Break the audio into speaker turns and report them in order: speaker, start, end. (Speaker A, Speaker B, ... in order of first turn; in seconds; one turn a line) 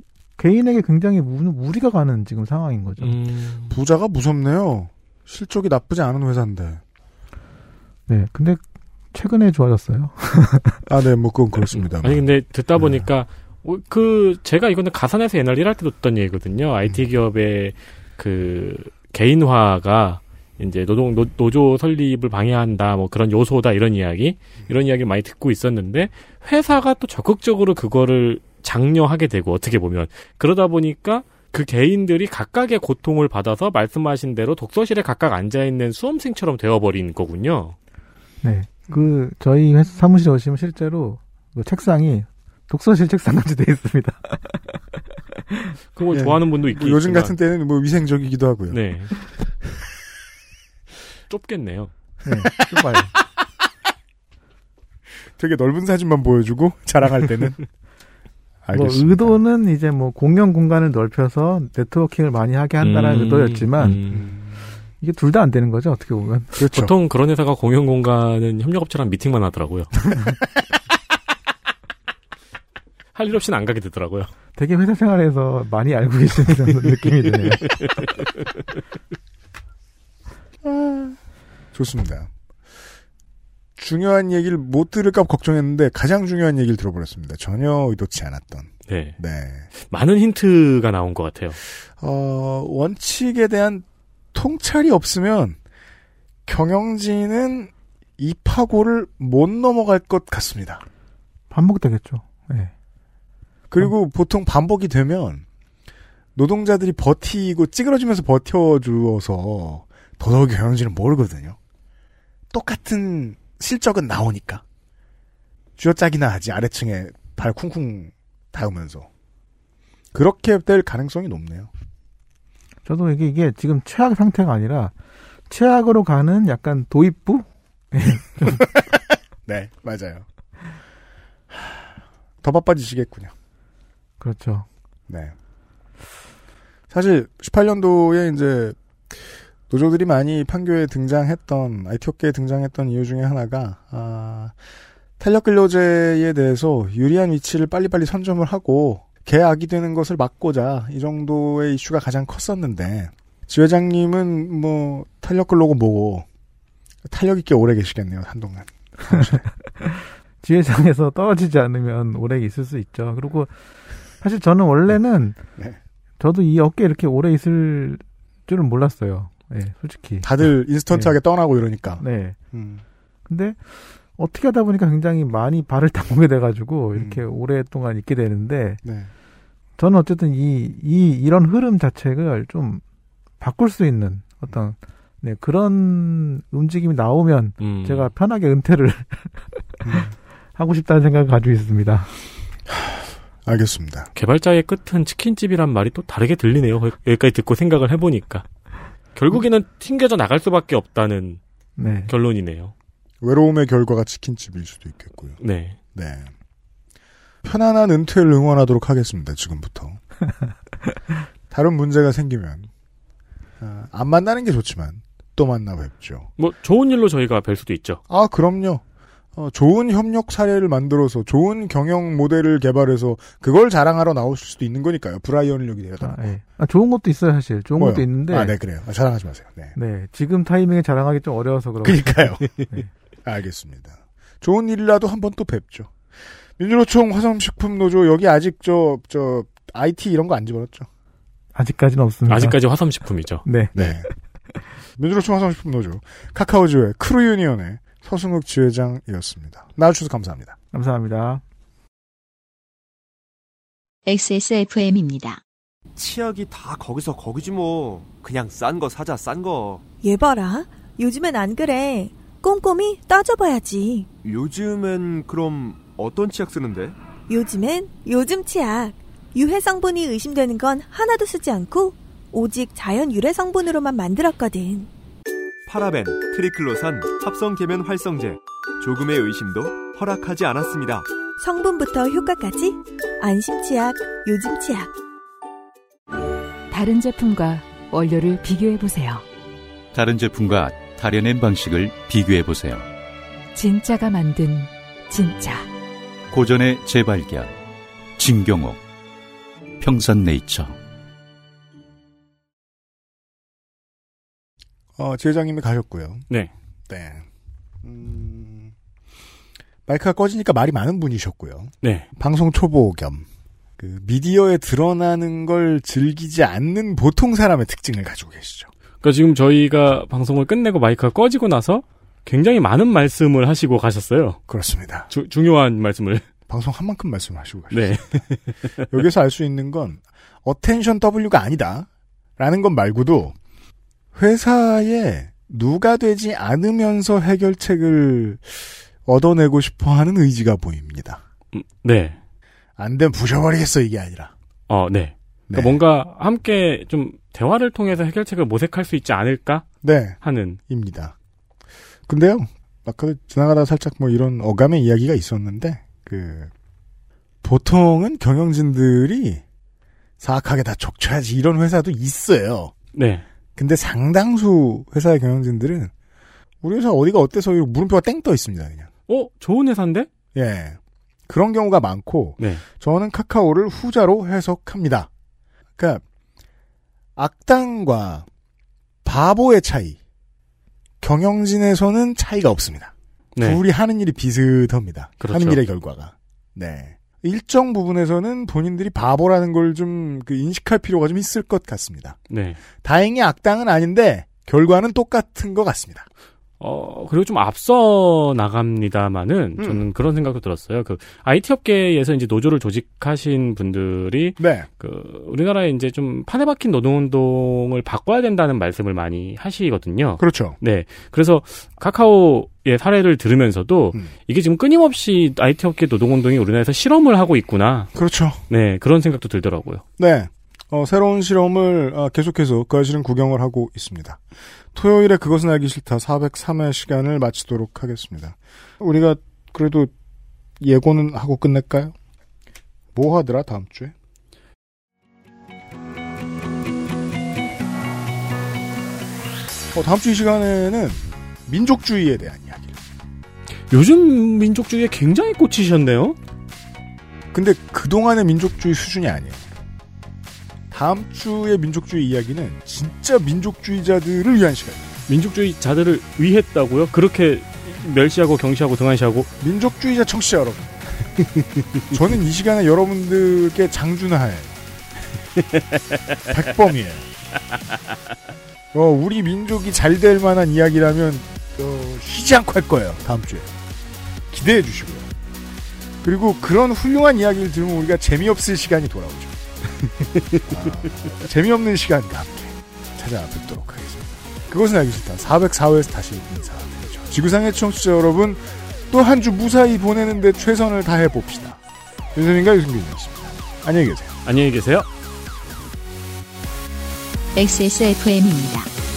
Speaker A: 0.4-3.1
Speaker B: 3.0-3.7
Speaker C: 3.7-6.8
Speaker A: 8.1-8.6
Speaker A: 9.1-10.8
Speaker C: 10.9-12.2
Speaker B: 12.0-37.7
Speaker C: 12.8-13.1
Speaker A: 38.4-44.8
Speaker B: 45.9-47.3
Speaker C: 46.1-48.8
Speaker B: 48.7-49.1
Speaker B: 51.3-51.9
Speaker C: 52.2-52.5
Speaker A: 52.5-53.1
Speaker C: 55.4-57.6
Speaker C: 58.6-59.4
Speaker A: 58.7-64.0
Speaker B: 62.8-64.2
Speaker C: 64.1-64.5
Speaker A: 65.0-66.5
Speaker C: 66.5-66.9
Speaker B: 66.7-70.0
Speaker B: 73.1-74.3
Speaker A: 74.6-77.6
Speaker C: 80.6-81.2
Speaker C: 81.7-82.3
Speaker C: 83.8-89.7
Speaker B: 88.9-89.2
Speaker B: 89.8-91.6
Speaker C: 91.9-95.6
Speaker C: 96.5-100.8
Speaker A: 101.5-102.7
Speaker C: 103.7-105.4
Speaker C: 106.3-111.6
Speaker C: 112.5-114.6
Speaker C: 115.8-119.1
Speaker C: 120.1-121.7
Speaker A: 122.8-124.9
Speaker A: 125.5-128.6
Speaker C: 128.6-128.9
Speaker C: 129.4-130.2
Speaker C: 131.5-133.3
Speaker A: 134.2-134.7
Speaker C: 135.1-135.3
Speaker C: 136.9-144.6
Speaker C: 145.2-156.2
Speaker C: 157.1-159.4
Speaker A: 159.0-163.6
Speaker A: 164.1-165.4
Speaker A: 166.2-170.3
Speaker C: 170.2-172.8
Speaker A: 172.0-172.4
Speaker A: 173.3-178.8
Speaker C: 176.9-177.2
Speaker C: 178.8-179.1
Speaker A: 179.8-182.8
Speaker A: 183.4-189.6
Speaker B: 187.6-188.1
Speaker C: 189.8-190.1
Speaker A: 190.6-192.1
Speaker C: 192.7-194.1
Speaker B: 194.1-198.4
Speaker B: 199.1-201.4
Speaker A: 201.8-202.1
Speaker B: 202.1-202.7
Speaker C: 203.2-205.4
Speaker B: 205.4-205.8
Speaker C: 205.9-206.3
Speaker C: 207.4-210.0
Speaker C: 211.5-212.7
Speaker C: 213.6-216.3
Speaker B: 216.4-218.0
Speaker C: 218.1-218.8
Speaker C: 219.3-226.3
Speaker A: 226.0-228.5
Speaker C: 227.8-229.7
Speaker A: 229.7-232.9
Speaker C: 231.8-240.9
Speaker A: 241.5-242.6
Speaker B: 242.3-243.4
Speaker A: 243.4-243.8
Speaker C: 243.7-244.1
Speaker C: 245.0-250.6
Speaker A: 250.7-251.4
Speaker D: 254.1-255.4
Speaker E: 255.9-259.8
Speaker F: 260.0-264.1
Speaker E: 264.2-266.9
Speaker F: 267.3-274.9
Speaker E: 275.6-281.1
Speaker F: 281.4-284.9
Speaker G: 286.7-289.2
Speaker H: 289.9-292.9
Speaker G: 293.5-295.7
Speaker H: 296.3-297.5
Speaker H: 298.2-298.8
Speaker H: 299.8-300.8
Speaker C: 305.0-306.2
Speaker C: 306.9-307.2
Speaker C: 307.8-308.7
Speaker C: 309.9-313.2
Speaker C: 313.8-318.7
Speaker B: 319.0-324.4
Speaker C: 324.5-325.1
Speaker B: 325.1-326.3
Speaker C: 326.5-328.2
Speaker B: 327.7-328.8
Speaker C: 328.9-333.3
Speaker C: 334.1-341.2
Speaker B: 341.5-342.2
Speaker C: 342.8-344.3
Speaker B: 344.7-349.7
Speaker C: 345.5-345.8
Speaker C: 349.8-351.1
Speaker B: 350.2-350.6
Speaker C: 352.1-356.5
Speaker C: 357.4-359.4
Speaker C: 360.2-362.7
Speaker B: 362.9-363.2
Speaker C: 363.6-365.9
Speaker C: 366.6-368.9
Speaker B: 369.1-370.1
Speaker C: 370.3-375.1
Speaker B: 372.4-372.6
Speaker C: 375.8-376.0
Speaker C: 377.1-378.3
Speaker C: 379.0-380.0
Speaker C: 381.0-392.2
Speaker B: 383.4-383.6
Speaker B: 385.2-385.6
Speaker B: 392.3-392.6
Speaker C: 392.8-396.1
Speaker B: 396.6-417.9
Speaker C: 399.6-399.8
Speaker C: 404.4-404.7
Speaker C: 410.2-410.6
Speaker C: 417.9-418.4
Speaker B: 418.5-419.8
Speaker C: 420.0-424.2
Speaker C: 424.7-429.9
Speaker C: 430.6-431.9
Speaker C: 432.9-433.9
Speaker C: 439.7-442.8
Speaker B: 443.7-446.2
Speaker C: 447.3-449.4
Speaker C: 450.7-454.9
Speaker B: 455.1-459.3
Speaker C: 459.4-461.1
Speaker C: 461.9-464.6
Speaker C: 466.3-467.1
Speaker C: 468.7-473.5
Speaker C: 474.3-475.1
Speaker C: 476.0-479.4
Speaker C: 480.3-491.6
Speaker C: 492.1-494.1
Speaker B: 494.2-494.9
Speaker D: 497.3-498.7